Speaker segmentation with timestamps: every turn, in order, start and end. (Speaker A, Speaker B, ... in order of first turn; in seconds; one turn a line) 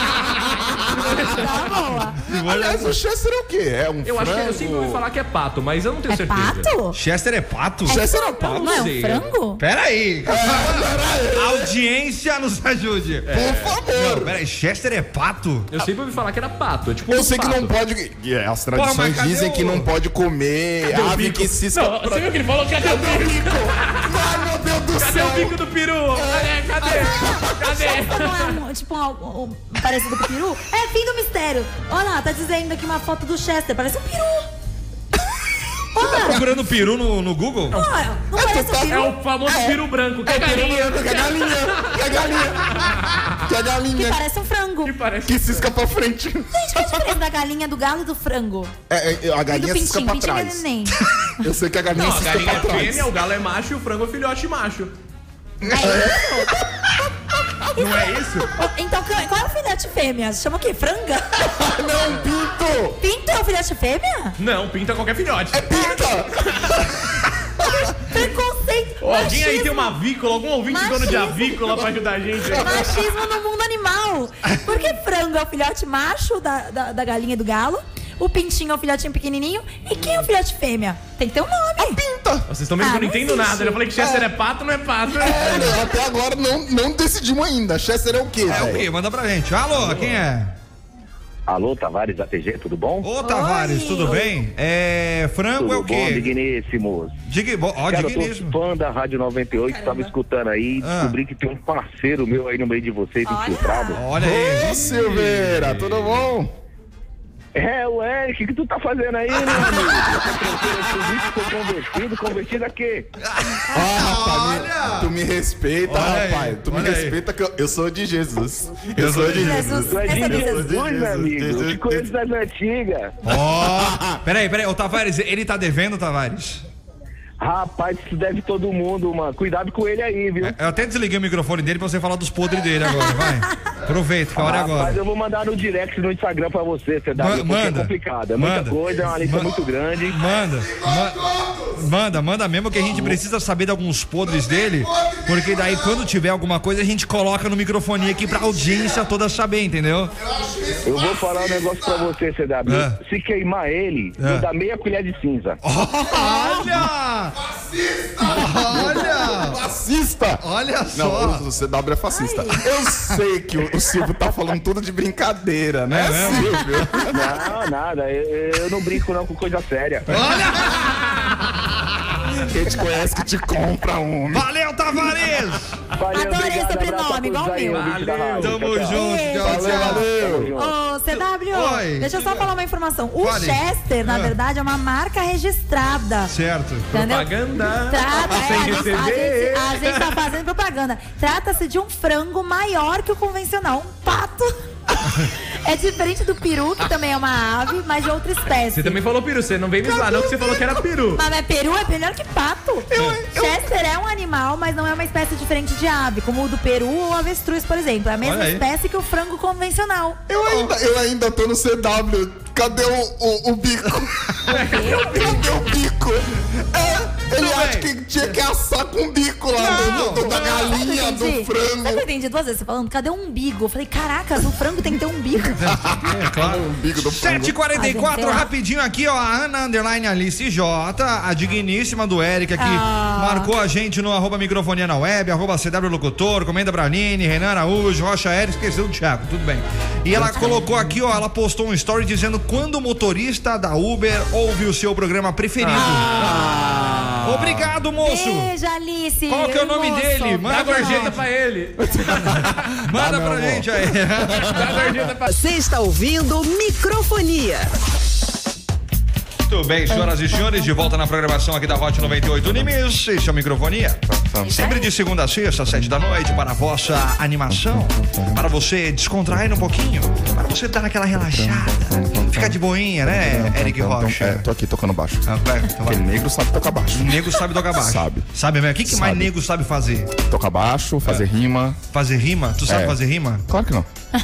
Speaker A: 0.5-5.0
Speaker B: 0.9-1.5
Speaker C: 1.2-2.2
Speaker D: 2.2-3.0
Speaker B: 4.0-6.7
Speaker C: 6.1-7.0
Speaker D: 6.9-8.0
Speaker A: 7.9-8.8
Speaker C: 7.9-9.6
Speaker B: 8.4-9.3
Speaker D: 9.6-13.4
Speaker A: 10.2-11.7
Speaker B: 13.3-13.8
Speaker A: 13.3-14.4
Speaker D: 13.9-15.7
Speaker B: 15.7-17.7
Speaker A: 17.1-25.6
Speaker D: 18.8-19.9
Speaker B: 20.9-24.2
Speaker B: 25.0-28.6
Speaker A: 26.1-27.6
Speaker C: 26.9-34.5
Speaker C: 35.9-36.4
Speaker A: 36.0-36.4
Speaker D: 36.0-37.8
Speaker C: 37.7-39.1
Speaker A: 38.3-44.2
Speaker B: 38.9-43.4
Speaker C: 43.9-44.9
Speaker B: 44.8-45.7
Speaker A: 45.3-47.2
Speaker C: 46.5-48.7
Speaker A: 48.9-50.6
Speaker C: 49.5-51.0
Speaker A: 51.4-53.1
Speaker B: 51.9-54.9
Speaker A: 55.6-56.9
Speaker C: 55.7-56.6
Speaker B: 57.7-58.5
Speaker C: 58.5-61.6
Speaker A: 61.4-63.0
Speaker C: 63.0-64.4
Speaker B: 64.4-65.9
Speaker A: 65.5-67.9
Speaker C: 65.7-66.0
Speaker C: 67.6-70.0
Speaker B: 69.0-73.0
Speaker C: 70.7-71.7
Speaker A: 72.4-72.9
Speaker C: 72.5-82.0
Speaker A: 81.8-82.5
Speaker B: 82.5-85.9
Speaker C: 82.8-83.8
Speaker A: 84.0-84.3
Speaker A: 85.2-88.9
Speaker D: 88.5-90.5
Speaker B: 89.7-90.2
Speaker E: 91.5-93.1
Speaker D: 93.0-96.3
Speaker C: 93.2-94.3
Speaker E: 95.6-97.2
Speaker D: 97.3-98.6
Speaker E: 97.9-104.0
Speaker C: 99.6-100.1
Speaker D: 100.8-101.2
Speaker C: 103.2-104.0
Speaker D: 104.0-104.8
Speaker A: 104.1-106.5
Speaker B: 104.9-105.9
Speaker E: 107.5-113.1
Speaker D: 109.5-110.0
Speaker D: 113.2-115.1
Speaker A: 113.7-122.0
Speaker D: 115.9-117.2
Speaker D: 119.0-119.8
Speaker C: 119.3-120.7
Speaker E: 119.9-123.2
Speaker D: 123.2-126.6
Speaker A: 123.5-124.2
Speaker E: 127.4-130.6
Speaker D: 130.4-135.0
Speaker C: 133.1-133.3
Speaker E: 134.3-140.2
Speaker D: 137.2-141.2
Speaker A: 140.4-141.9
Speaker D: 141.8-150.1
Speaker A: 142.9-143.2
Speaker A: 144.2-146.1
Speaker A: 148.2-149.0
Speaker A: 150.2-152.1
Speaker E: 150.8-155.6
Speaker D: 152.7-153.0
Speaker D: 154.2-154.5
Speaker D: 155.6-157.3
Speaker C: 156.1-156.7
Speaker A: 156.3-167.5
Speaker D: 158.2-159.6
Speaker D: 160.4-161.4
Speaker C: 162.1-162.7
Speaker D: 165.9-166.8
Speaker C: 166.3-167.0
Speaker E: 167.1-170.1
Speaker D: 170.1-171.7
Speaker A: 172.4-174.5
Speaker D: 174.3-175.8
Speaker E: 176.0-180.8
Speaker C: 176.1-177.9
Speaker B: 177.7-178.6
Speaker D: 178.4-180.1
Speaker C: 178.9-179.7
Speaker A: 179.4-180.5
Speaker C: 180.6-186.3
Speaker D: 181.5-182.4
Speaker D: 183.2-184.3
Speaker D: 186.3-186.9
Speaker C: 186.9-187.3
Speaker B: 186.9-190.2
Speaker C: 187.8-194.5
Speaker C: 195.4-199.0
Speaker B: 198.7-201.2
Speaker A: 199.9-200.8
Speaker C: 201.2-210.2
Speaker A: 202.9-203.7
Speaker D: 208.2-208.6
Speaker A: 210.3-222.1
Speaker D: 210.4-210.7
Speaker C: 214.5-215.4
Speaker B: 214.5-215.5
Speaker D: 217.3-217.9
Speaker D: 219.6-220.7
Speaker C: 219.6-225.6
Speaker A: 225.4-227.6
Speaker D: 225.6-246.2
Speaker C: 227.7-228.5
Speaker C: 232.6-233.5
Speaker A: 240.1-240.7
Speaker C: 240.3-240.6
Speaker A: 245.6-247.7
Speaker D: 247.2-248.5
Speaker C: 248.0-251.1
Speaker D: 249.3-251.2
Speaker B: 250.5-252.4
Speaker A: 251.8-254.9
Speaker D: 252.2-254.6
Speaker B: 254.4-255.3
Speaker F: 255.2-257.7
Speaker D: 259.5-274.4
Speaker C: 259.9-260.8
Speaker A: 262.3-262.6
Speaker A: 264.1-264.7
Speaker C: 264.4-264.9
Speaker A: 267.5-268.4
Speaker A: 271.1-275.3
Speaker D: 275.3-276.1
Speaker A: 275.8-278.3
Speaker D: 276.9-280.1
Speaker A: 278.8-279.3
Speaker A: 280.3-281.8
Speaker D: 281.9-283.4
Speaker A: 282.6-283.9